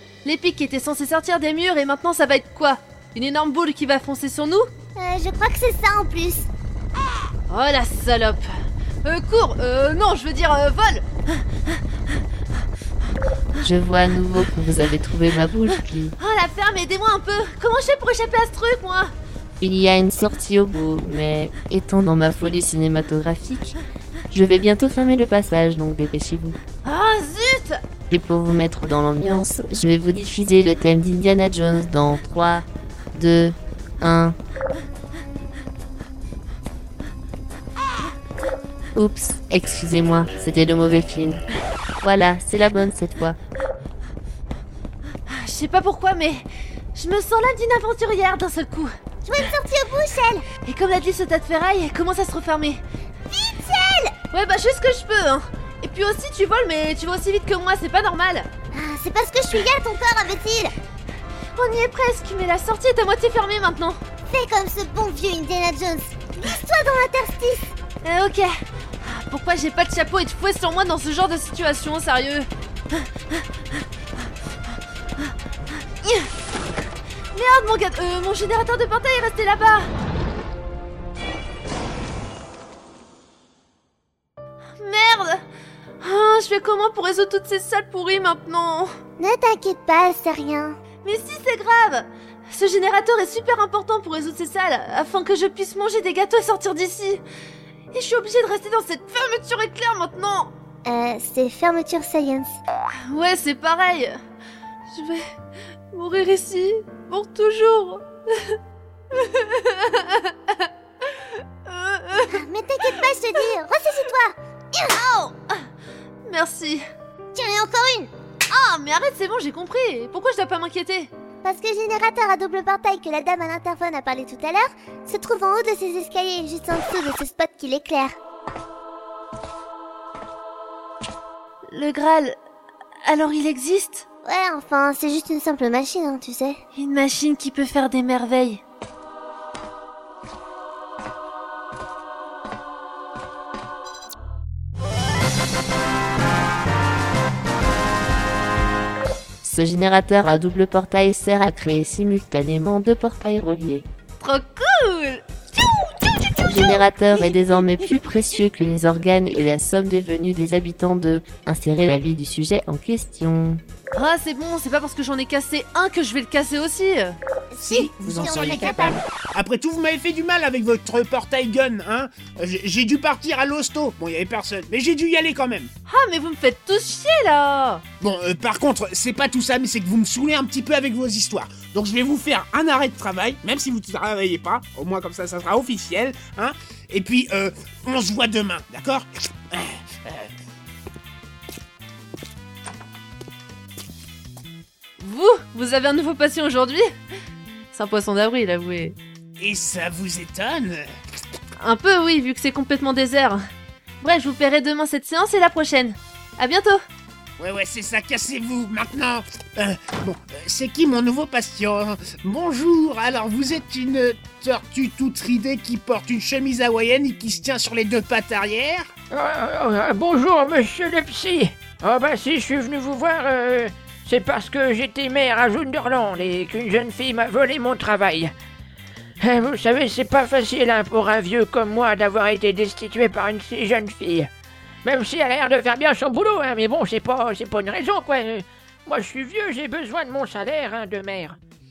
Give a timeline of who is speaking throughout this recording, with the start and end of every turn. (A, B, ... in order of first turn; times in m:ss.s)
0:00.2-0:04.6 A
0:05.0-0:06.5 B
0:07.5-0:08.5 A
0:09.0-0:11.1 A
0:13.6-0:16.1 C
0:16.2-0:19.1 A
0:19.6-0:23.8 C
0:24.3-0:26.6 C
0:26.8-0:27.8 A
0:28.1-0:34.4 C
0:38.9-0:41.4 C
0:42.0-0:43.4 C
0:45.3-0:48.9 A
0:49.2-0:50.4 B
0:50.6-0:52.8 A
0:53.3-0:54.1 B
0:54.3-0:58.5 A
0:58.7-1:00.8 B
1:01.6-1:04.0 A
1:04.3-1:07.7 B
1:08.0-1:08.5 A
1:09.0-1:13.4 A
1:16.0-1:16.3 A
1:17.3-1:19.9 A
1:24.8-1:25.4 A
1:26.0-1:28.9 A
1:29.2-1:30.8 B
1:31.0-1:37.2 A
1:37.9-1:40.5 A
1:40.9-1:42.6 B
1:43.1-1:44.2 A
1:44.9-1:45.2 A
1:45.9-1:48.6 A
1:49.1-1:52.3 A
1:52.2-1:55.0 B
1:55.0-1:55.6 A
1:56.2-1:56.8 A
1:57.3-1:58.1 B
1:58.5-2:01.1 A
2:01.4-2:08.1 B
2:11.7-2:12.4 A
2:13.0-2:14.0 A
2:14.2-2:16.6 B
2:16.8-2:18.6 A
2:29.4-2:33.9 C
2:34.2-2:35.2 A
2:36.4-2:43.6 C
2:43.9-2:47.2 A
2:47.5-2:49.0 B
2:47.7-2:55.7 D
2:47.9-2:49.0 C
2:55.9-2:57.8 A
2:58.0-3:10.3 D
3:15.0-3:16.9 A
3:17.7-3:19.0 A
3:19.4-3:20.8 D
3:21.6-3:23.4 A
3:24.0-3:26.8 A
3:27.4-3:38.9 D
3:39.1-3:48.3 E
3:49.2-3:54.3 E
3:54.8-4:01.4 E